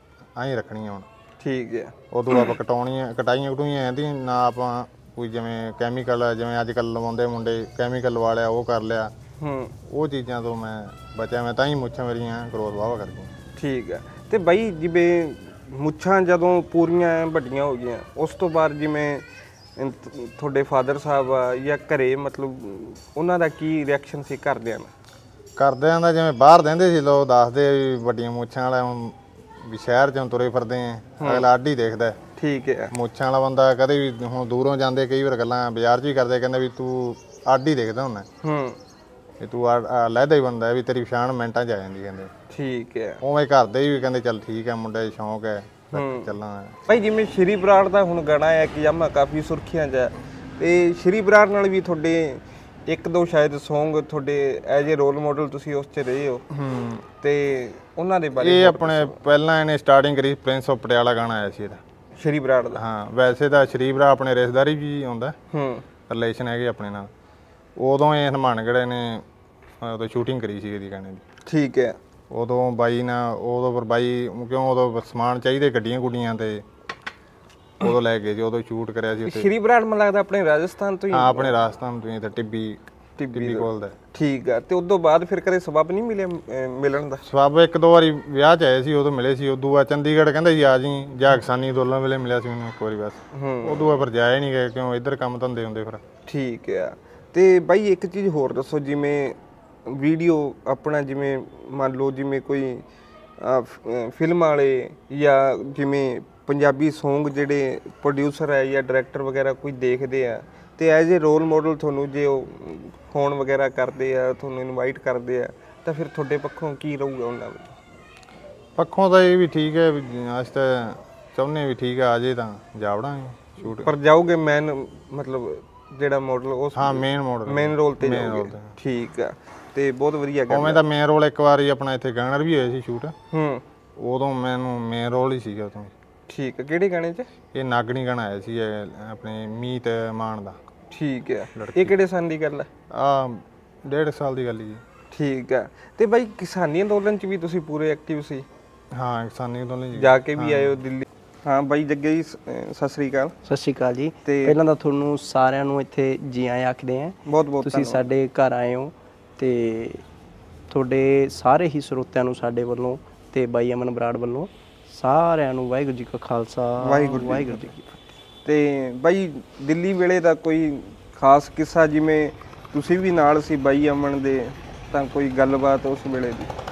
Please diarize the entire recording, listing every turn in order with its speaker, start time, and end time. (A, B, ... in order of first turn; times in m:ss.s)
0:00.4-0:01.1 A
0:01.4-0:02.3 B
0:02.1-0:09.1 A
0:09.4-0:09.7 B
0:09.9-0:13.3 A
0:13.6-0:19.2 B
0:19.8-0:24.9 B
0:25.6-0:32.2 A
0:31.2-0:31.5 B
0:32.4-0:32.9 B
0:32.9-0:38.3 A
0:38.4-0:38.8 B
0:39.4-0:42.3 A
0:42.5-0:43.2 B
0:43.2-0:46.8 A
0:45.9-0:46.3 B
0:46.9-0:56.5 B
0:56.6-0:57.0 A
0:57.2-0:59.2 B
0:58.4-1:01.8 A
1:02.2-1:02.8 B
1:02.7-1:05.4 A
1:05.5-1:05.8 B
1:06.1-1:07.1 A
1:07.8-1:09.2 A
1:09.8-1:11.2 A
1:11.4-1:12.0 B
1:12.3-1:16.6 A
1:17.8-1:19.5 A
1:19.2-1:21.6 B
1:21.1-1:22.8 A
1:23.2-1:27.2 B
1:23.3-1:24.0 A
1:27.2-1:36.0 A
1:33.3-1:34.0 B
1:36.2-1:42.8 B
1:43.4-1:57.7 B
1:58.8-2:03.9 A
2:03.7-2:10.8 B
2:06.7-2:08.7 A
2:10.5-2:13.1 A
2:13.3-2:13.6 B
2:14.0-2:15.9 A
2:16.3-2:17.3 B
2:17.5-2:20.6 A
2:20.9-2:22.7 B
2:21.6-2:21.9 A
2:22.9-2:24.8 A
2:25.1-2:28.4 B
2:28.9-2:30.8 A
2:29.9-2:33.3 B
2:33.4-2:40.0 C
2:34.2-2:34.6 B
2:37.2-2:38.1 B
2:40.7-2:48.1 C
2:46.8-2:47.7 B
2:48.4-2:56.5 B